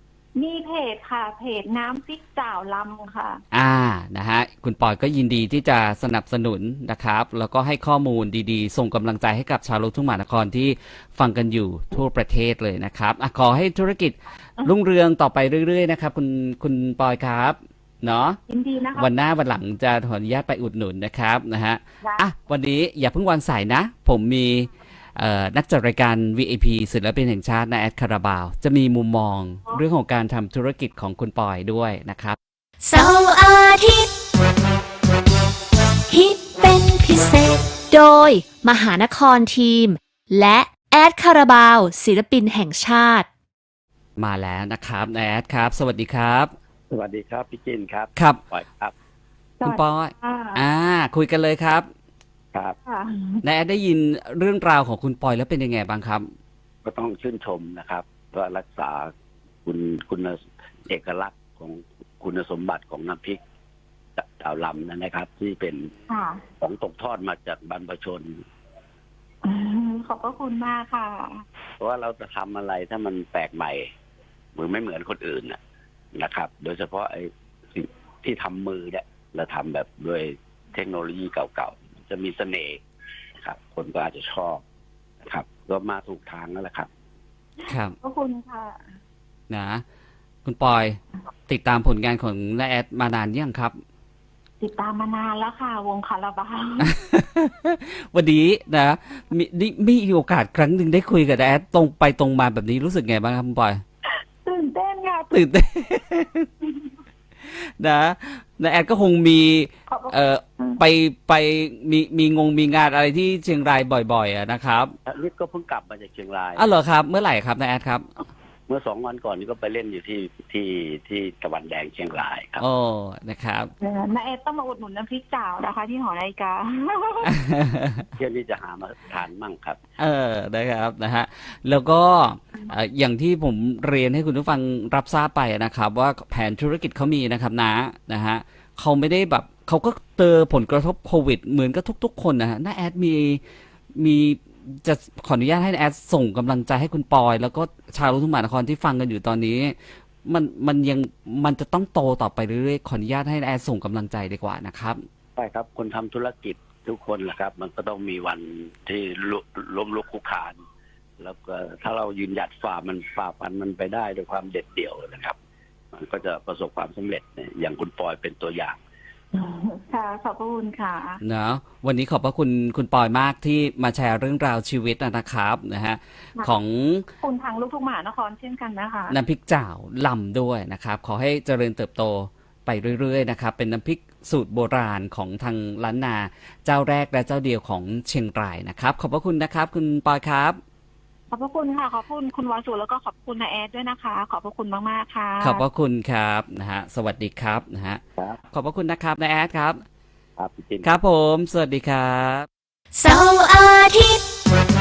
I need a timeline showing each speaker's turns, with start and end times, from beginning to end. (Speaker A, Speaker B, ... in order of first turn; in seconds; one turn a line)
Speaker A: 0.3-3.4
Speaker B: 3.5-18.4
Speaker A: 18.5-19.1
Speaker B: 18.9-32.4
Speaker A: 22.0-22.2
Speaker C: 32.8-34.1
Speaker C: 36.1-43.2
Speaker B: 44.2-46.5
Speaker D: 46.9-48.9
Speaker B: 48.1-48.4
Speaker A: 49.6-50.6
Speaker B: 49.6-51.9
Speaker A: 52.8-53.4
Speaker B: 53.4-56.3
Speaker D: 56.8-59.1
Speaker D: 59.6-63.4
Speaker D: 64.2-65.9
Speaker A: 66.1-66.4
Speaker D: 66.6-68.4
Speaker A: 69.4-71.4
Speaker D: 71.8-73.9
Speaker D: 74.5-75.6
Speaker D: 76.1-82.8
Speaker D: 83.4-84.6
Speaker D: 85.2-86.9
Speaker B: 87.7-87.9
Speaker A: 88.0-88.8
Speaker B: 89.5-89.8
Speaker B: 90.4-93.8
Speaker A: 94.6-96.9
Speaker B: 96.8-103.8
Speaker A: 104.4-105.4
Speaker B: 105.3-106.5
Speaker B: 107.4-114.9
Speaker A: 109.9-110.8
Speaker D: 115.0-116.6
Speaker B: 116.5-118.1
Speaker D: 118.7-122.6
Speaker B: 122.6-123.7
Speaker A: 123.8-127.3
Speaker B: 127.2-128.0
Speaker D: 128.1-129.8
Speaker B: 130.0-143.4
Speaker B: 143.9-155.0
Speaker D: 155.3-160.6
Speaker D: 161.2-165.3
Speaker D: 165.9-168.8
Speaker A: 169.3-171.2
Speaker B: 171.2-177.1
Speaker A: 177.2-179.2
Speaker B: 179.1-190.6
Speaker A: 191.3-195.6
Speaker B: 195.4-199.8
Speaker D: 200.4-200.9
Speaker B: 200.8-202.5
Speaker C: 202.9-204.2